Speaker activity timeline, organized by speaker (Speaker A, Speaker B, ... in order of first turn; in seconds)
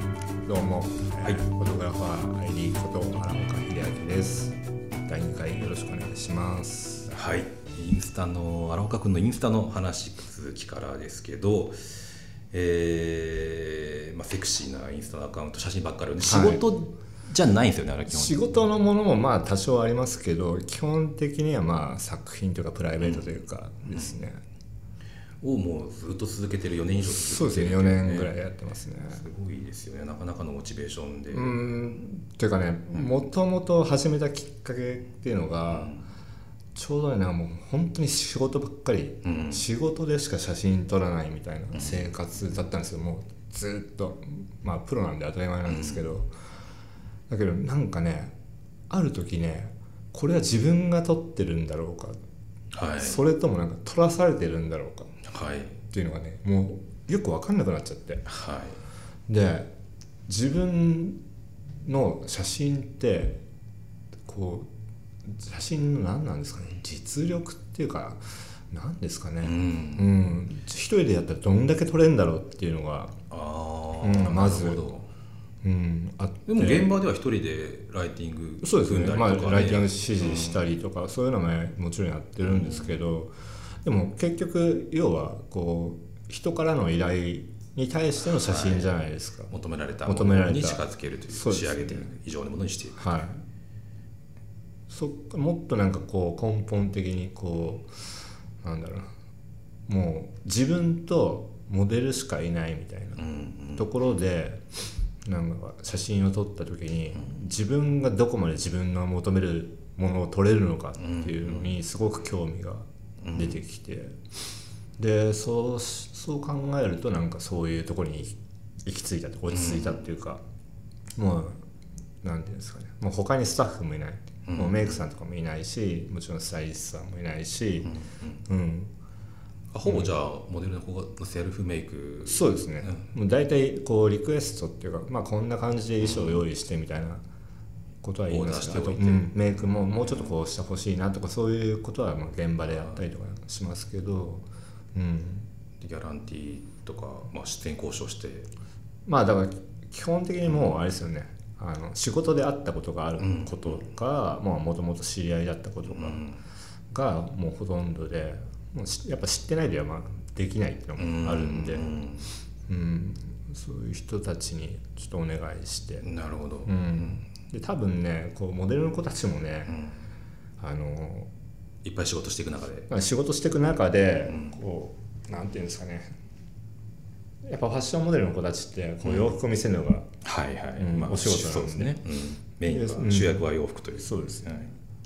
Speaker A: 0.5-7.1, 16.2-16.6, 18.1-24.4, 27.0-29.2, 31.3-36.0, 36.8-46.3, 47.3-48.4, 48.9-52.2, 53.0-55.1, 55.9-58.2, 59.3-59.7, 60.3-61.2, 61.8-63.4, 64.3-64.7, 65.3-73.2, 74.0-74.8, 75.6-76.9, 78.6-83.3, 83.8-89.5, 90.1-92.1, 93.0-93.4, 94.9-98.0, 98.6-99.1, 99.9-103.2, 103.8-104.7, 105.2-114.2, 115.0-120.4, 121.2-121.6, 122.2-127.9, 128.5-128.9, 129.8-130.1, 132.3-137.2, 138.0-145.5, 149.1-156.2, 156.9-161.9, 162.7-166.1, 166.7-169.8, 170.6-171.3, 172.9-176.1, 177.4-180.1, 180.8-182.0, 182.6-184.7
Speaker B: 7.1-18.5, 23.0-23.3, 23.9-24.2, 25.4-28.4, 29.0-31.7, 35.7-36.0, 39.2-39.7, 41.8-42.1, 45.7-46.0, 52.7-53.2, 55.2-55.8, 58.3-58.8, 69.4-70.1, 73.3-75.1, 76.5-80.7, 82.4-83.0, 88.3-88.9, 89.5-93.2, 103.2-103.9, 111.0-111.8, 113.2-113.6, 119.5-120.0, 124.5-125.0, 127.9-128.4, 129.7-133.1, 136.0-136.4, 138.3-140.3, 142.7-143.0, 145.8-148.5, 153.2-153.9, 155.9-156.4, 161.0-162.3, 166.0-167.2, 169.7-170.0, 171.8-172.9, 174.3-174.6, 179.0-179.3, 180.2-184.7